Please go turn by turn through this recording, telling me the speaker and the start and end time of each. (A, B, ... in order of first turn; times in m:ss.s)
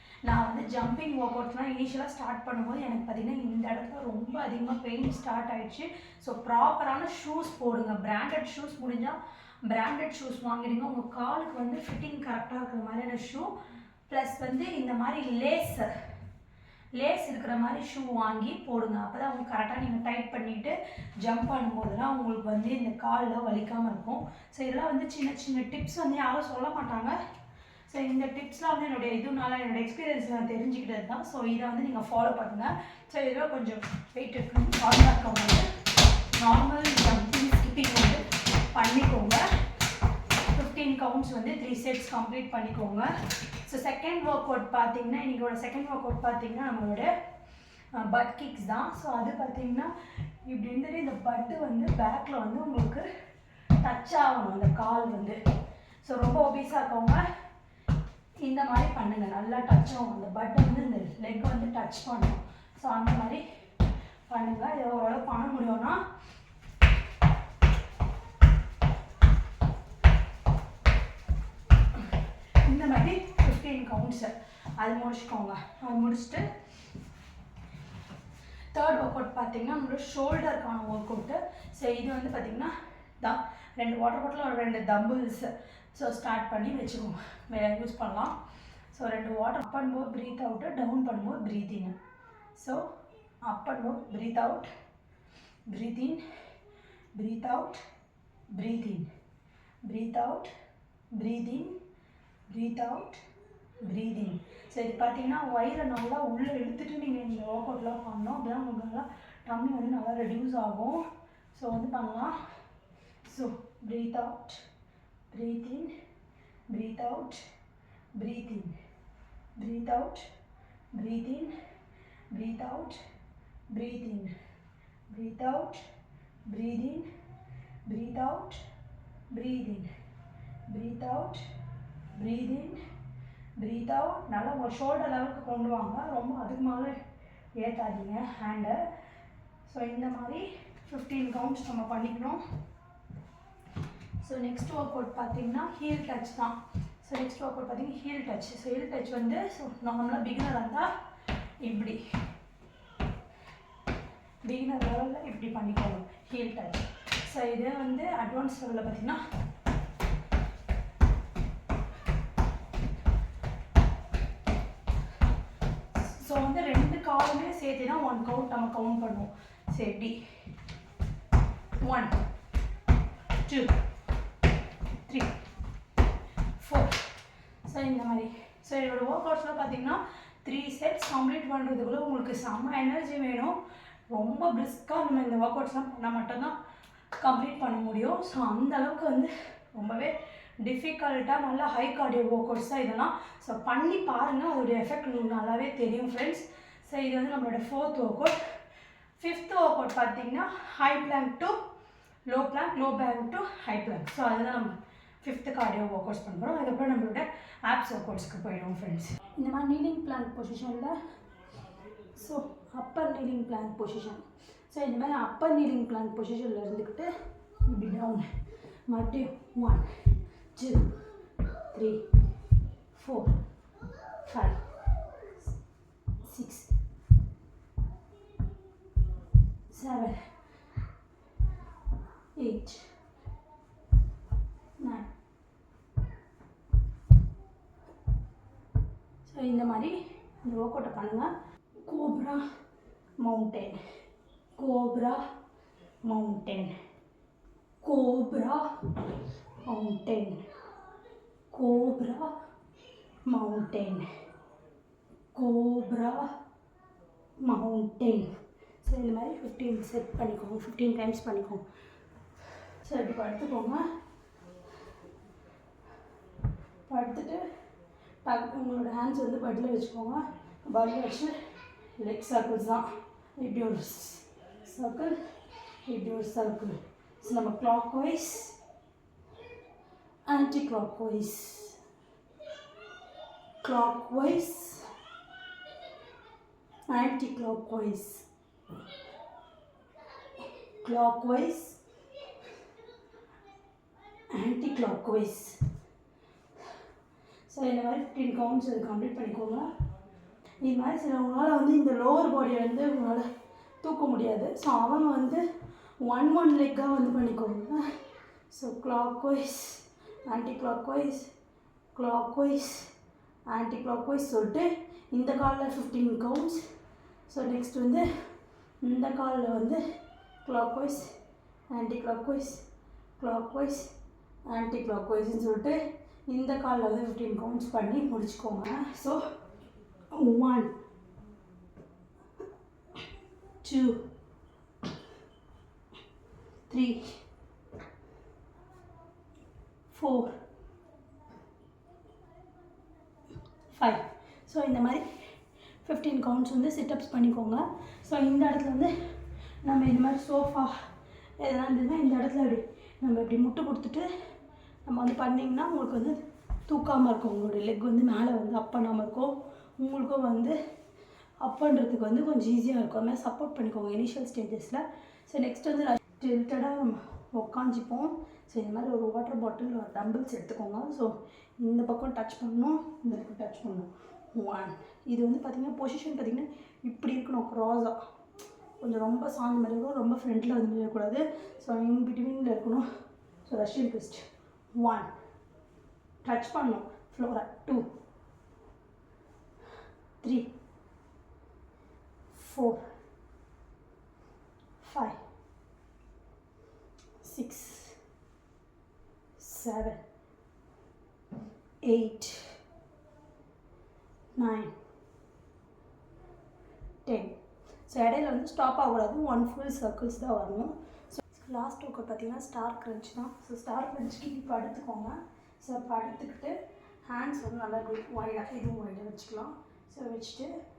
0:00.2-0:13.5 A
0:14.1-0:15.9 A
0:16.9-0:27.2 A
0:27.9-0:35.6 A
0:36.3-0:39.5 A
0:40.5-0:43.1 A
0:43.6-0:47.1 A
0:47.9-0:49.9 A
0:50.4-0:53.0 A
0:53.8-0:55.4 A
0:56.0-0:57.2 A
0:58.4-1:03.4 A
1:04.3-1:06.0 A
1:12.6-1:16.4 A
1:18.7-1:28.3 A
1:28.9-1:32.0 A
1:32.5-1:32.8 A
1:33.4-1:34.7 A
1:35.7-1:36.2 A
1:37.1-1:37.8 A
1:38.5-1:39.1 A
1:39.8-1:40.5 A
1:41.1-1:41.7 A
1:42.5-1:43.2 A
1:43.8-1:52.3 A
1:53.2-1:54.6 A
1:55.3-1:55.9 A
1:56.7-1:57.4 A
1:58.1-1:58.7 A
1:59.6-2:00.3 A
2:00.9-2:01.5 A
2:02.3-2:03.0 A
2:03.7-2:04.3 A
2:05.1-2:05.8 A
2:06.4-2:07.0 A
2:07.8-2:08.6 A
2:09.3-2:09.9 A
2:10.7-2:11.4 A
2:12.1-2:12.8 A
2:13.6-2:17.0 A
2:17.5-2:18.8 A
2:19.6-2:22.4 A
2:24.2-2:30.9 A
2:31.6-2:32.0 A
2:34.4-2:39.2 A
2:45.9-2:50.2 A
2:51.8-2:52.2 A
2:53.4-2:53.7 A
2:55.0-2:55.3 A
2:56.6-2:57.0 A
2:57.6-3:03.6 A
3:04.1-3:06.5 A
3:07.2-3:18.4 A
3:19.2-3:21.6 A
3:22.2-3:31.0 A
3:32.1-3:37.1 A
3:37.6-3:38.3 A
3:38.9-3:40.0 A
3:40.5-3:40.9 A
3:41.7-3:42.0 A
3:42.9-3:43.4 A
3:44.2-3:44.6 A
3:46.2-3:46.7 A
3:49.7-3:50.2 A
3:52.4-3:52.8 A
3:54.8-3:55.1 A
3:59.2-4:01.3 A
4:01.8-4:02.4 A
4:03.2-4:03.8 A
4:04.6-4:05.2 A
4:06.0-4:06.7 A
4:07.8-4:09.1 A
4:09.6-4:10.4 A
4:11.5-4:12.3 A
4:13.3-4:14.0 A
4:15.3-4:16.3 A
4:17.4-4:18.3 A
4:18.8-4:21.6 A
4:22.8-4:23.8 A
4:26.9-4:27.4 A
4:28.2-4:31.3 A
4:32.0-4:32.9 A
4:33.4-4:35.2 A
4:35.8-4:38.6 A
4:40.2-4:41.8 A
4:43.6-4:44.9 A
4:46.9-4:48.2 A
4:50.8-4:51.8 A
4:54.3-4:55.6 A
4:57.5-4:59.6 A
5:00.6-5:03.2 A
5:03.8-5:05.4 A
5:06.0-5:07.8 A
5:08.5-5:11.3 A
5:11.9-5:12.9 A
5:13.5-5:16.6 A
5:17.3-5:18.0 A
5:18.8-5:19.8 A
5:20.4-5:21.1 A
5:21.7-5:22.6 A
5:23.2-5:23.9 A
5:24.5-5:29.2 A
5:30.1-5:30.7 A
5:33.6-5:34.0 A
5:36.7-5:37.2 A
5:39.9-5:40.3 A
5:43.7-5:45.0 A
5:45.8-5:48.9 A
5:49.6-5:50.7 A
5:51.4-5:54.1 A
5:54.8-6:00.6 A
6:01.4-6:18.0 A
6:18.8-6:22.8 A
6:23.4-6:24.2 A
6:24.8-6:25.1 A
6:26.2-6:27.8 A
6:30.2-6:30.5 A
6:32.3-6:32.8 A
6:34.8-6:35.2 A
6:37.2-6:38.0 A
6:39.4-6:40.0 A
6:41.8-6:42.5 A
6:44.4-6:44.7 A
6:47.0-6:47.3 A
6:47.9-7:00.5 A